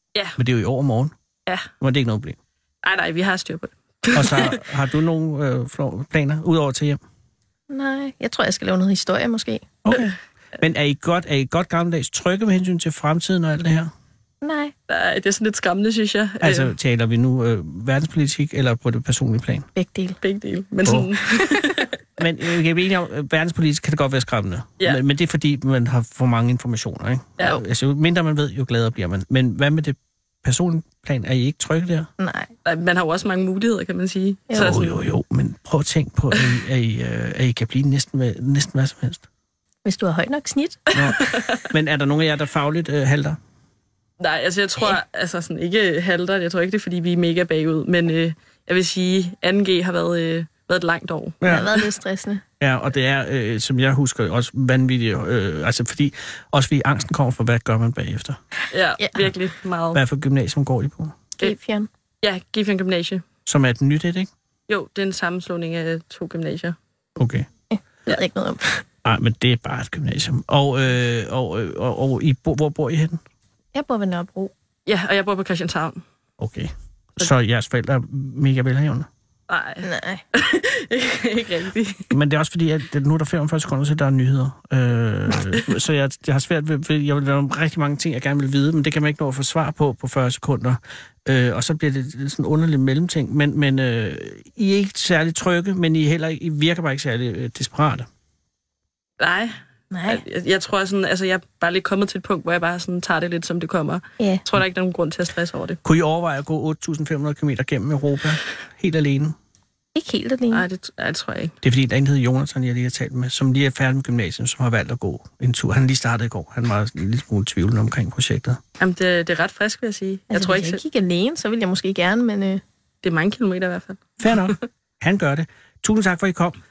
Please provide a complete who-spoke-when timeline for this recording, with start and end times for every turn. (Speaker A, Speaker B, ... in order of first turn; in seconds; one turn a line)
Speaker A: 0.4-1.1
Speaker A: 1.8-2.4
Speaker B: 2.8-4.6
Speaker A: 4.1-7.0
Speaker C: 7.7-9.8
Speaker A: 9.8-13.9
Speaker C: 14.4-14.7
Speaker B: 14.9-16.7
Speaker A: 16.4-19.7
Speaker C: 19.8-20.2
Speaker B: 20.2-22.0
Speaker A: 20.9-21.1
Speaker A: 22.2-32.1
Speaker C: 32.2-32.5
Speaker B: 32.6-35.0
Speaker A: 34.6-39.2
Speaker C: 39.9-41.0
Speaker B: 40.9-41.7
Speaker A: 40.9-43.4
Speaker B: 44.2-51.9
Speaker A: 51.4-51.8
Speaker C: 51.4-52.4
Speaker A: 52.6-58.4
Speaker B: 58.7-60.0
Speaker A: 59.9-61.2
Speaker C: 61.4-61.9
Speaker B: 62.2-63.2
Speaker A: 63.5-64.3
Speaker B: 64.7-66.8
Speaker A: 67.2-67.5
Speaker C: 67.7-68.8
Speaker A: 69.0-73.2
Speaker C: 73.8-74.5
Speaker B: 74.9-76.0
Speaker A: 76.4-79.1
Speaker B: 79.5-82.1
Speaker C: 79.8-80.2
Speaker A: 82.1-98.1
Speaker B: 99.2-105.8
Speaker C: 99.9-100.2
Speaker C: 104.2-104.5
Speaker A: 105.8-109.3
Speaker C: 110.0-110.7
Speaker B: 110.5-111.5
Speaker A: 111.6-118.6
Speaker B: 118.8-120.8
Speaker C: 120.3-122.6
Speaker B: 123.0-124.6
Speaker A: 124.2-126.6